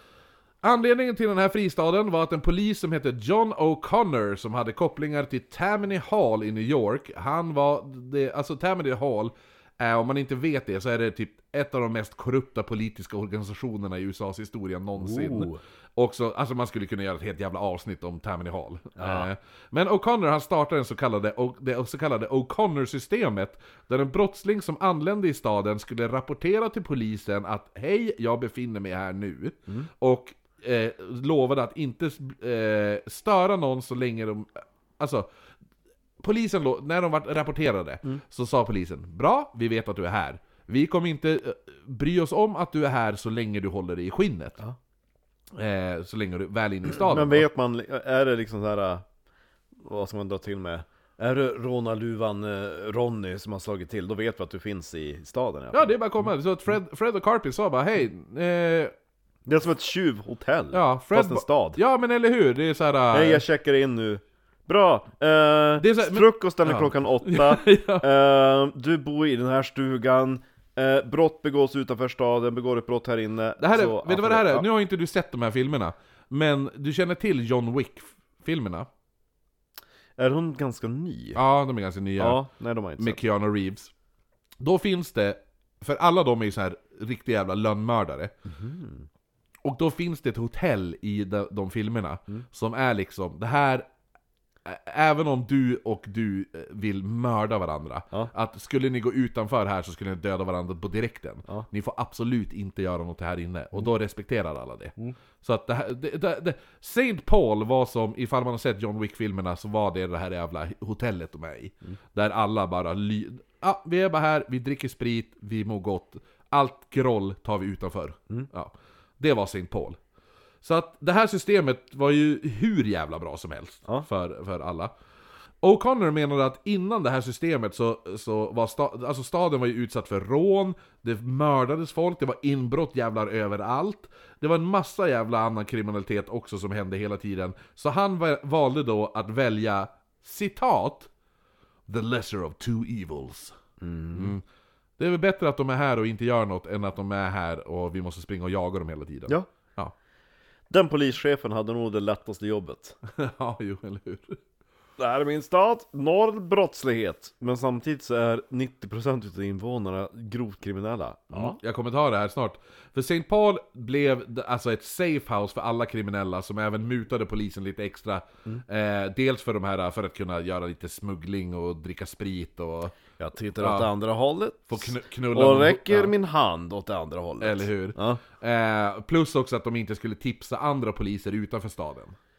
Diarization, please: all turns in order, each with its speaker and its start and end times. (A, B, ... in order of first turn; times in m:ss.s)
0:00.6-0:35.3 A
0:15.0-0:15.6 B
0:19.0-0:19.3 B
0:36.2-0:44.6 A
0:45.5-0:47.5 A
0:46.9-0:49.0 B
0:49.8-0:56.0 B
0:55.7-0:58.9 A
0:59.5-1:01.8 B
1:00.7-1:03.4 A
1:03.1-1:14.7 B
1:05.8-1:08.1 A
1:13.6-1:18.9 A
1:20.2-1:21.4 B
1:21.4-1:22.4 A
1:22.2-1:23.2 B
1:23.0-1:23.9 A
1:24.6-1:28.4 A
1:28.5-1:29.1 B
1:29.6-1:33.9 A
1:34.6-2:00.0 A
2:00.6-2:04.9 A
2:05.6-2:21.1 A
2:21.9-2:23.6 A
2:23.8-2:24.4 B
2:24.1-2:24.4 A
2:25.0-2:29.9 A
2:30.7-2:33.0 B
2:33.1-2:34.4 A
2:35.0-2:41.6 B
2:41.3-2:53.0 A
2:53.2-2:58.2 B
2:53.6-2:53.9 A
2:54.7-2:56.1 A
2:57.4-3:02.2 A